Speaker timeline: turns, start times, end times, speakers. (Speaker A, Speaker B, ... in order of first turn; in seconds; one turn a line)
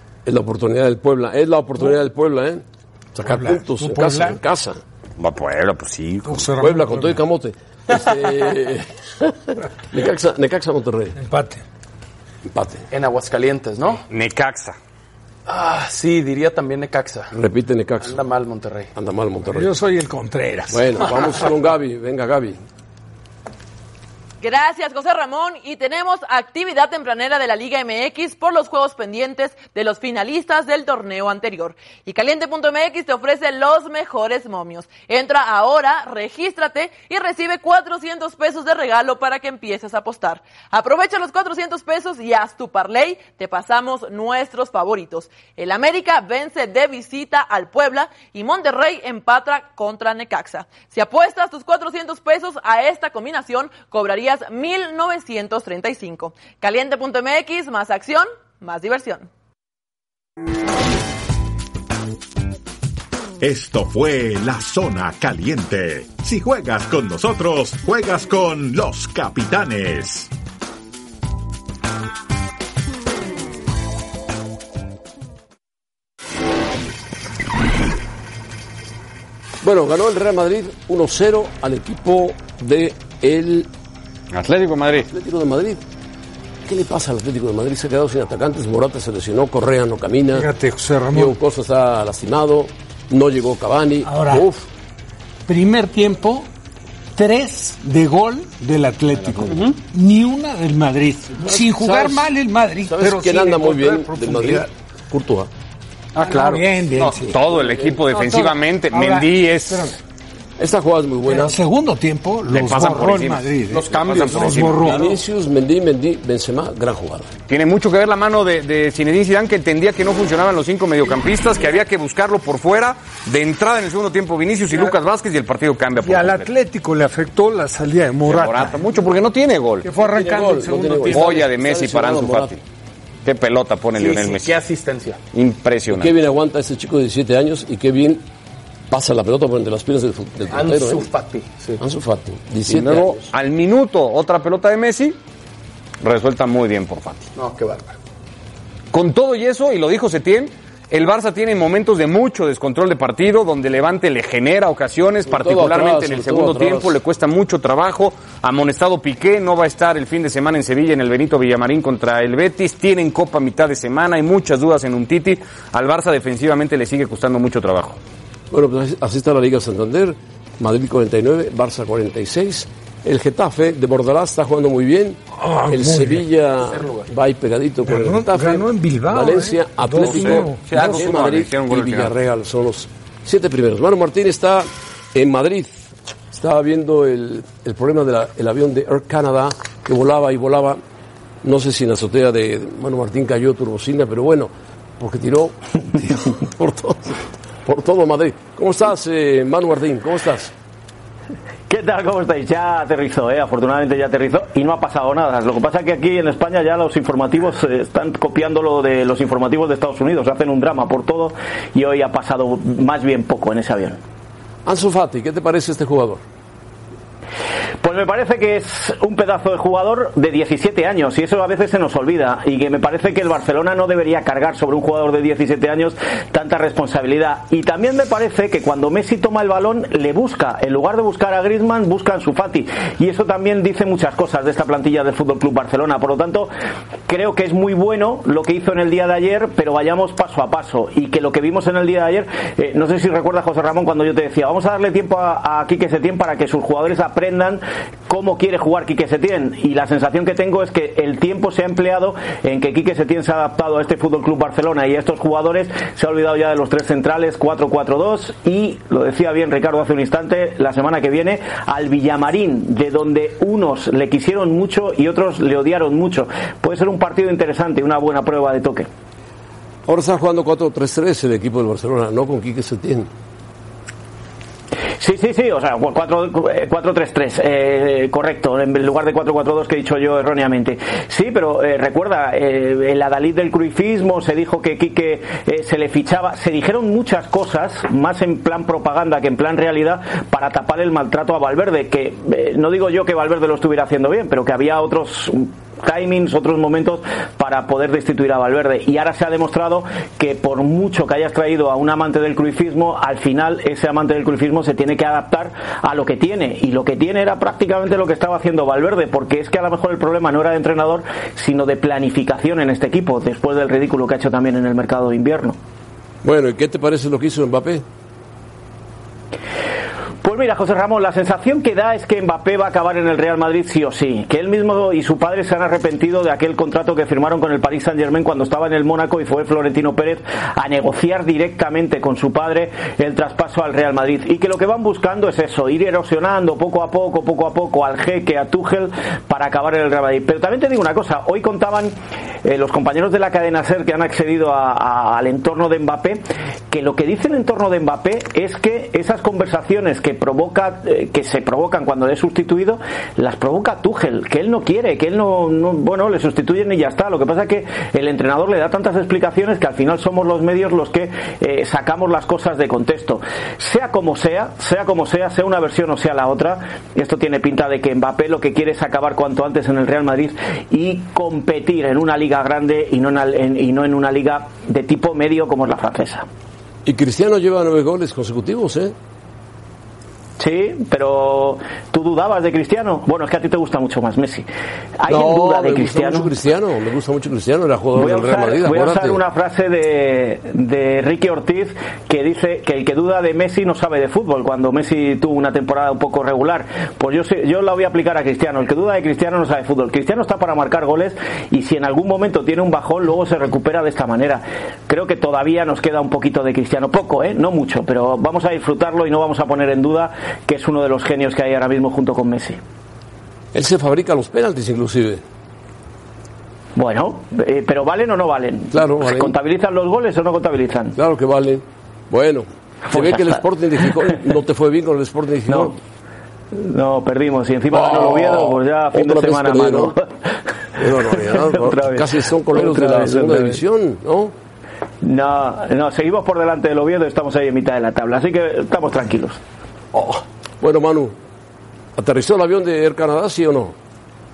Speaker A: 0.2-4.8
Speaker B: 3.2-4.4
Speaker C: 5.2-6.5
Speaker B: 6.3-7.2
Speaker A: 6.6-11.2
Speaker B: 11.2-11.6
Speaker A: 12.5-12.9
Speaker D: 12.9-14.0
Speaker C: 14.1-14.8
Speaker D: 15.5-17.3
Speaker A: 17.3-18.2
Speaker D: 18.0-18.9
Speaker A: 18.9-19.7
Speaker B: 19.5-21.4
Speaker A: 20.7-22.6
Speaker E: 24.4-59.3
Speaker F: 63.4-70.3
Speaker A: 79.6-83.7
Speaker C: 84.3-85.1
Speaker A: 85.0-85.8
Speaker A: 86.7-90.5
Speaker B: 90.3-91.4
Speaker A: 91.1-94.7
Speaker B: 94.0-94.5
Speaker B: 95.5-96.5
Speaker B: 97.2-104.7
Speaker D: 99.5-99.8
Speaker A: 101.4-102.3
Speaker A: 102.8-105.5
Speaker C: 106.2-109.9
Speaker B: 106.2-107.4
Speaker A: 107.4-108.0
Speaker B: 108.1-110.0
Speaker A: 110.6-111.6
Speaker B: 111.3-115.1
Speaker C: 112.5-115.1
Speaker D: 113.8-115.1
Speaker A: 114.9-117.3
Speaker C: 117.5-126.5
Speaker B: 126.0-128.8
Speaker C: 128.3-129.9
Speaker B: 129.8-131.4
Speaker A: 129.9-132.6
Speaker C: 131.1-132.6
Speaker C: 133.2-134.6
Speaker D: 133.9-135.2
Speaker C: 135.3-136.2
Speaker A: 135.9-138.3
Speaker A: 138.9-141.1
Speaker D: 140.5-141.8
Speaker A: 141.8-143.3
Speaker C: 142.7-145.2
Speaker C: 146.0-147.3
Speaker D: 147.3-148.0
Speaker C: 148.9-168.0
Speaker A: 155.3-157.0
Speaker A: 168.5-190.8
Speaker B: 175.3-176.3
Speaker D: 176.7-177.1
Speaker B: 177.9-181.1
Speaker C: 180.0-182.2
Speaker A: 191.4-200.5
Speaker G: 201.7-214.0
Speaker A: 214.7-216.2
Speaker G: 217.8-236.5
Speaker G: 237.1-268.9
Speaker A: 269.9-273.1
Speaker G: 275.0-315.6
Speaker A: 316.2-317.9
Speaker G: 320.2-376.3
Speaker A: 376.9-378.9
Speaker G: 380.4-384.5
Speaker G: 385.0-386.3
Speaker A: 385.1-389.2
Speaker G: 387.9-412.6
Speaker A: 413.5-415.2
Speaker G: 416.8-420.9
Speaker A: 418.7-419.4
Speaker A: 421.0-425.8
Speaker G: 422.9-424.2
Speaker G: 425.5-425.7
Speaker G: 426.5-430.1
Speaker A: 427.7-429.9
Speaker A: 430.8-434.4
Speaker G: 430.8-433.6
Speaker G: 435.0-439.4
Speaker A: 439.9-441.2
Speaker A: 442.0-443.8